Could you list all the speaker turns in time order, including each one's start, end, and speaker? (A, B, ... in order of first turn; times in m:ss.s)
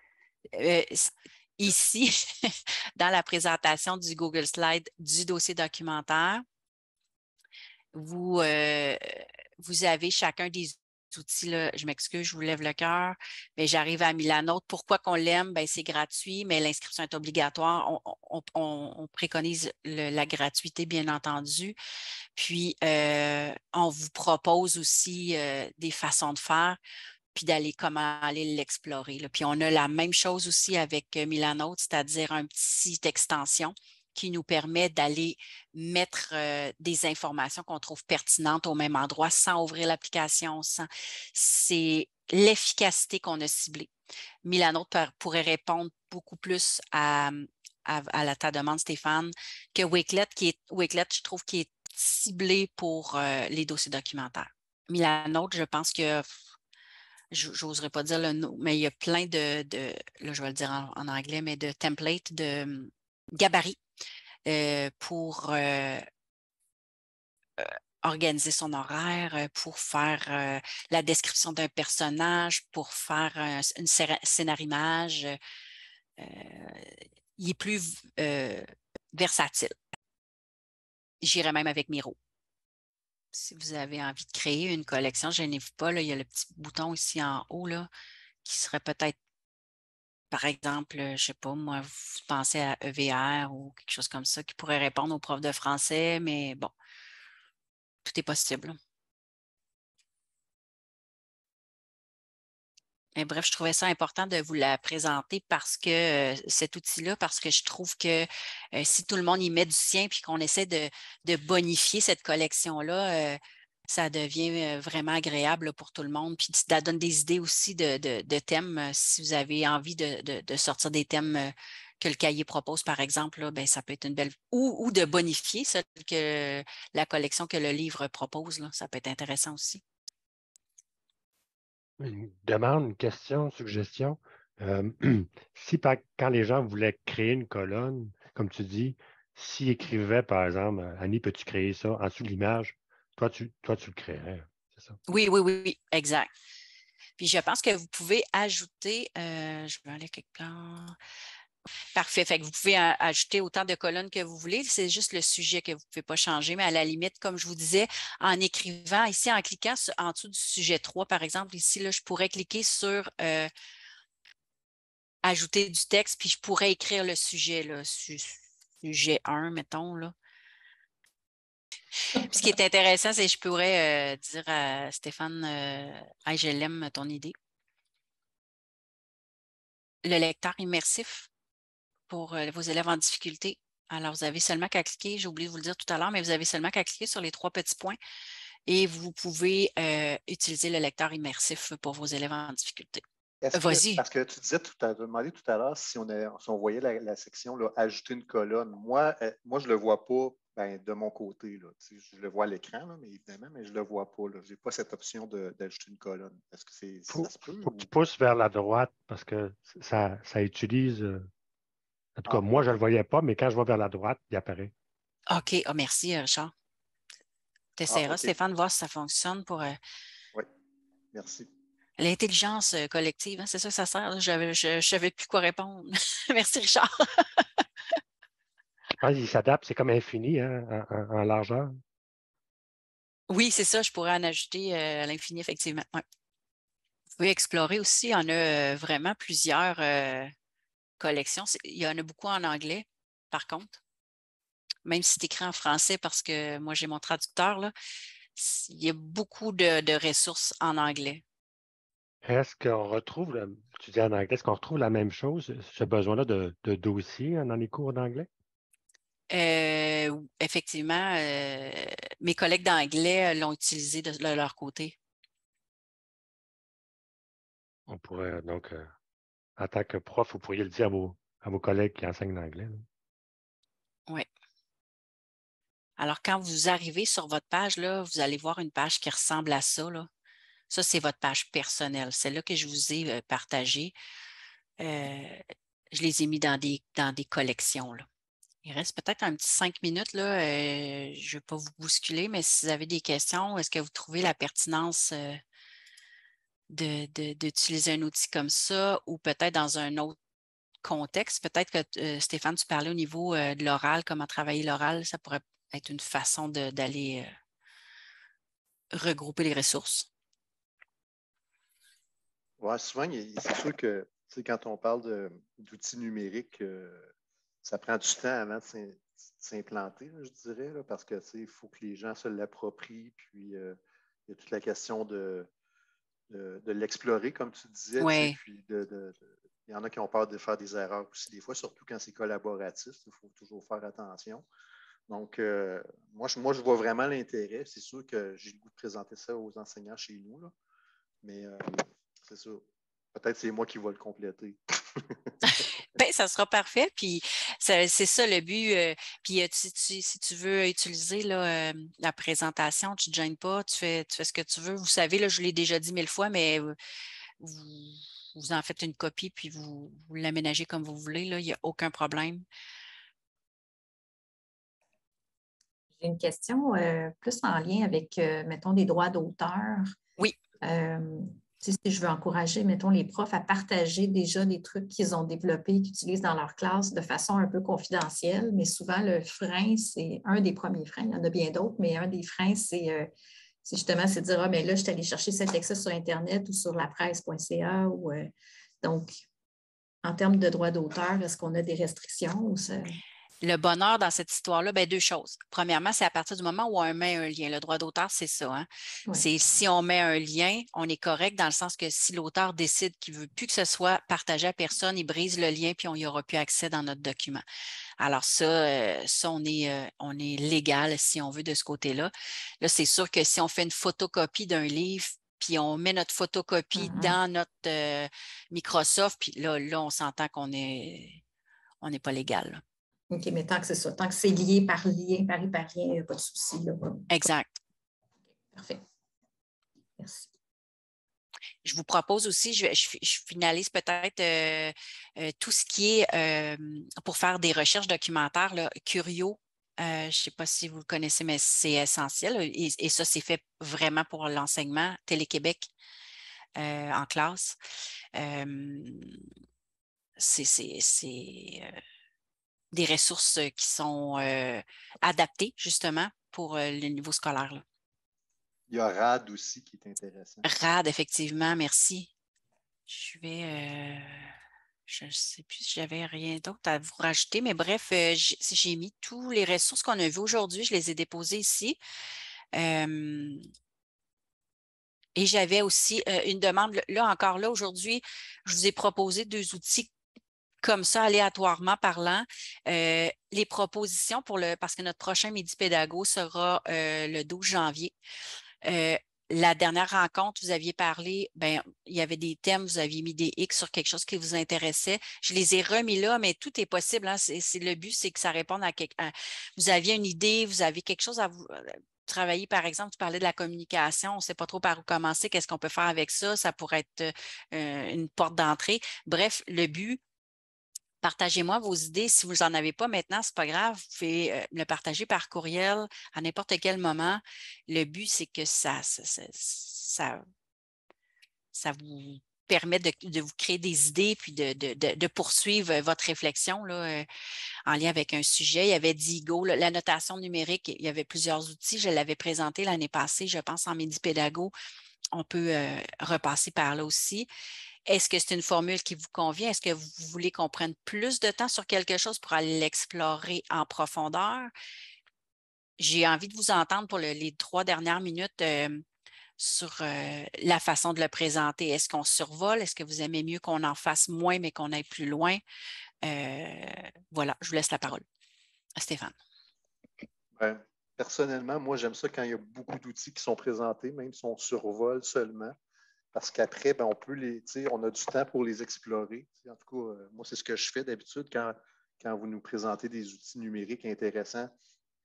0:00.5-0:06.4 A
0:07.9-0:21.8 A
0:22.4-0:26.8 A
0:27.3-0:43.9 A
0:44.4-0:56.3 A
0:57.3-1:03.8 A
1:04.5-1:06.1 A
1:07.6-1:15.4 A
1:16.2-1:19.8 A
1:21.2-1:22.2 A
1:23.3-1:27.9 A
1:28.4-1:29.2 A
1:30.3-1:36.7 A
1:38.0-1:38.8 A
1:43.2-2:09.8 A
2:12.0-2:25.0 B
2:25.1-2:26.3 A
2:27.2-2:31.0 A
2:32.0-2:43.5 A
2:45.2-2:50.1 A
2:52.1-2:57.4 A
3:00.0-3:01.3 A
3:02.1-3:08.0 A
3:08.7-3:13.0 A
3:13.4-3:27.9 C
3:13.5-3:14.0 A
3:27.1-3:31.3 B
3:32.2-3:34.7 B
3:35.3-3:36.5 A
3:37.8-3:39.8 A
3:37.9-3:38.3 C
3:41.1-3:41.5 C
3:42.0-3:47.6 A
3:49.0-3:51.8 B
3:53.3-3:56.0 A
3:57.2-4:00.3 A
4:01.0-4:03.8 A
4:04.9-4:07.7 A
4:08.4-4:11.2 A
4:12.2-4:18.3 B
4:19.3-4:25.0 A
4:27.9-4:28.9 B
4:29.6-4:32.9 B
4:36.0-4:40.1 A
4:40.7-4:44.0 A
4:44.8-4:45.4 A
4:45.9-4:48.1 A
4:48.6-4:55.4 A
4:56.7-5:00.2 A
5:00.8-5:07.3 A
5:08.9-5:10.1 A
5:12.6-5:17.1 C
5:17.6-5:23.8 C
5:24.3-5:25.5 C
5:26.3-5:34.4 C
5:28.0-5:28.4 A
5:35.1-5:40.5 C
5:41.2-5:45.7 C
5:46.0-5:56.7 A
5:57.4-6:02.4 A
6:06.0-6:10.0 D
6:10.6-6:23.1 D
6:23.6-6:29.2 D
6:30.0-6:33.0 D
6:33.4-6:47.4 A
6:48.0-7:01.2 A
6:56.8-6:57.2 D
7:01.8-7:02.6 A
7:03.1-7:07.1 D
7:07.1-7:07.6 A
7:08.5-7:08.8 D
7:10.0-7:10.3 D
7:11.6-7:25.7 A
7:26.6-7:27.6 A
7:28.2-7:29.2 A
7:30.2-7:31.8 A
7:32.7-7:37.6 A
7:38.7-7:40.5 C
7:40.4-7:42.1 A
7:42.9-7:44.3 A
7:44.9-7:51.8 A
7:52.6-7:53.4 A
7:55.2-7:59.9 A
8:00.6-8:07.9 A
8:08.6-8:30.0 A
8:31.0-8:40.2 A
8:41.5-8:47.1 A
8:47.7-8:54.5 A
8:55.1-8:57.3 A
8:57.9-9:04.5 A
9:05.8-9:08.8 A
9:09.4-9:15.4 A
9:16.0-9:18.0 A
9:18.8-9:19.1 A
9:20.4-9:25.6 C
9:26.1-9:34.5 C